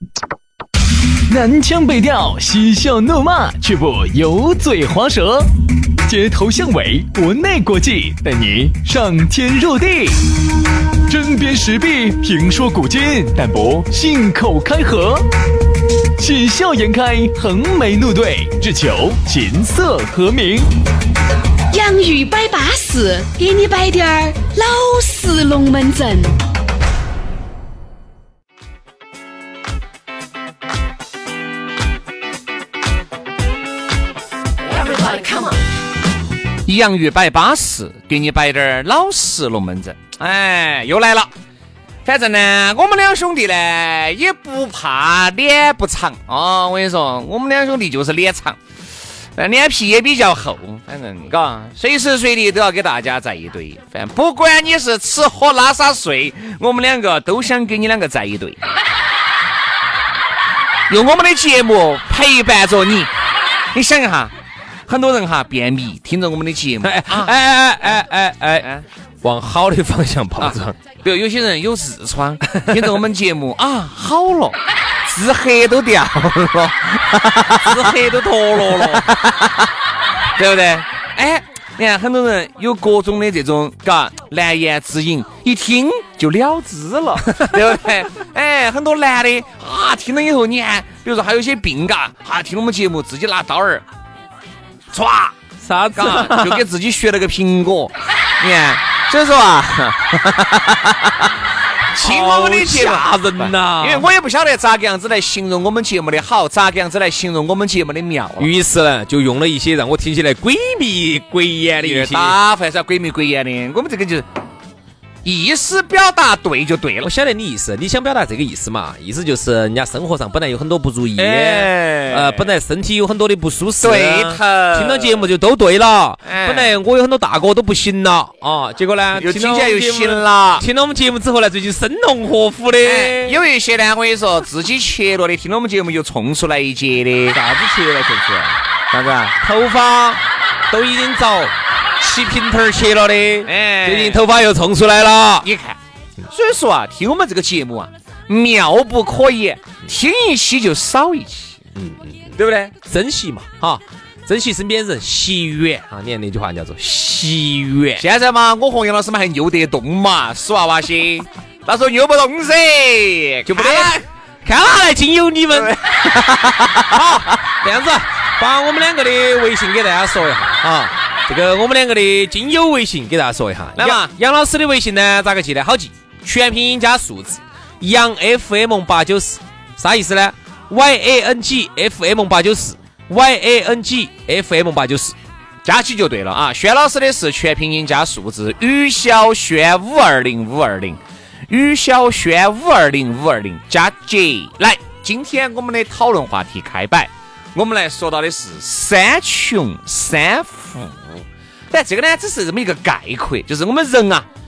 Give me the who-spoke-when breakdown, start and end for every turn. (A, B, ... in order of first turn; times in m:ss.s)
0:01.3-0:05.5 A
0:06.0-0:10.3 A
0:11.0-0:15.2 A
0:16.2-0:20.7 A
0:21.7-0:26.4 B
0:36.6-0:41.3 C
0:42.0-0:48.6 C
0:49.3-0:58.6 C
1:00.9-1:03.1 C
1:03.7-1:04.3 C
1:04.9-1:07.3 C
1:06.8-1:08.7 D
1:09.2-1:10.8 D
1:10.4-1:19.7 C
1:17.6-1:19.1 D
1:20.4-1:33.8 C
1:27.3-1:27.5 D
1:34.9-1:35.3 C
1:35.6-1:36.6 D
1:35.9-1:41.3 C
1:41.9-1:48.5 C
1:42.0-1:44.1 D
1:48.4-1:52.4 D
1:51.8-1:54.3 C
1:55.2-1:57.1 C
1:57.0-2:13.4 D
2:01.2-2:02.5 C
2:03.8-2:05.3 C
2:06.2-2:06.7 C
2:09.1-2:10.6 C
2:12.8-2:17.4 C
2:17.3-2:18.6 D
2:18.9-2:19.4 C
2:19.4-2:25.5 D
2:23.4-2:24.2 C
2:25.4-2:31.6 C
2:31.8-2:38.0 D
2:32.4-2:32.7 C
2:38.0-2:44.1 C
2:43.4-3:05.2 D
2:45.5-2:47.2 C
2:53.8-2:54.1 C
3:05.6-3:24.3 C